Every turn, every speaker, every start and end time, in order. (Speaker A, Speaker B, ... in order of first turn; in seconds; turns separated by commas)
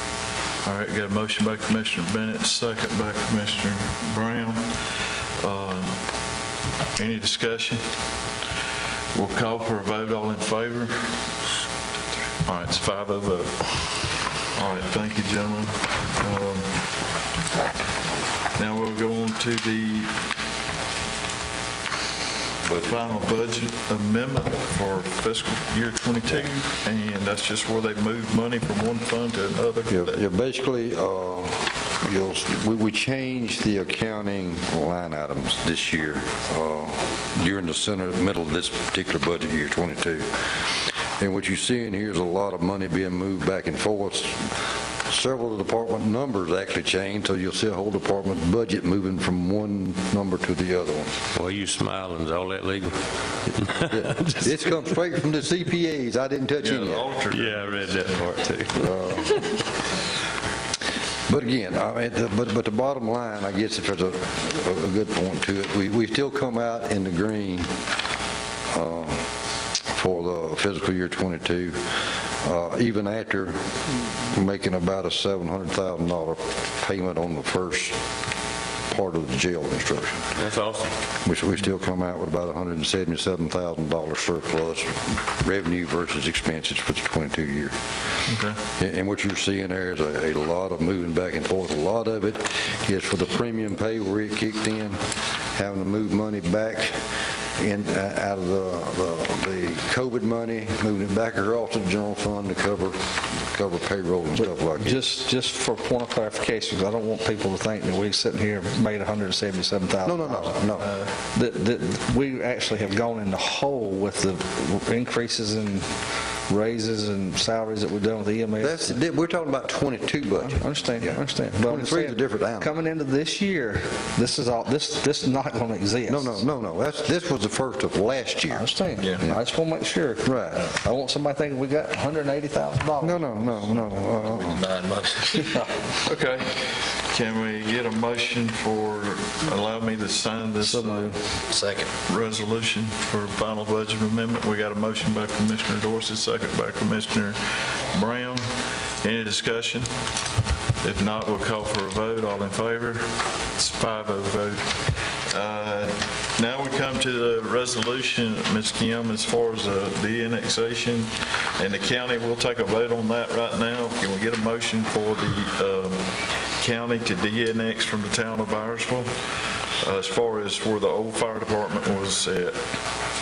Speaker A: 0.6-6.1, Speaker A: 7.0-7.9, Speaker A: 9.1-11.2, Speaker A: 12.4-13.8, Speaker A: 14.5-16.8, Speaker A: 18.6-20.2, Speaker B: 22.6-23.1, Speaker A: 22.8-30.2, Speaker B: 29.9-40.6, Speaker B: 41.2-44.5, Speaker B: 45.1-51.1, Speaker C: 51.4-53.0, Speaker C: 53.6-54.4, Speaker B: 53.9-57.1, Speaker A: 56.6-58.4, Speaker C: 57.3-58.9, Speaker B: 58.8-59.4, Speaker B: 61.3-67.7, Speaker B: 68.7-69.2, Speaker B: 69.9-71.8, Speaker B: 72.4-73.6, Speaker B: 74.3-78.0, Speaker B: 78.9-80.2, Speaker C: 80.4-80.9, Speaker B: 81.2-87.8, Speaker A: 88.3-88.6, Speaker B: 88.8-95.0, Speaker B: 95.5-97.0, Speaker B: 97.6-105.1, Speaker D: 104.3-115.9, Speaker B: 110.0-110.9, Speaker E: 110.8-111.1, Speaker D: 116.5-119.0, Speaker B: 118.6-122.7, Speaker D: 120.4-126.5, Speaker B: 126.1-129.4, Speaker D: 128.5-134.0, Speaker A: 129.0-129.2, Speaker B: 130.2-130.7, Speaker B: 133.0-134.6, Speaker E: 134.2-135.6, Speaker D: 135.3-135.7, Speaker A: 136.0-141.2, Speaker D: 140.6-141.2, Speaker E: 141.5-141.9, Speaker A: 142.1-148.5, Speaker A: 149.0-149.9, Speaker A: 150.8-166.0, Speaker A: 166.6-169.1, Speaker A: 169.8-172.6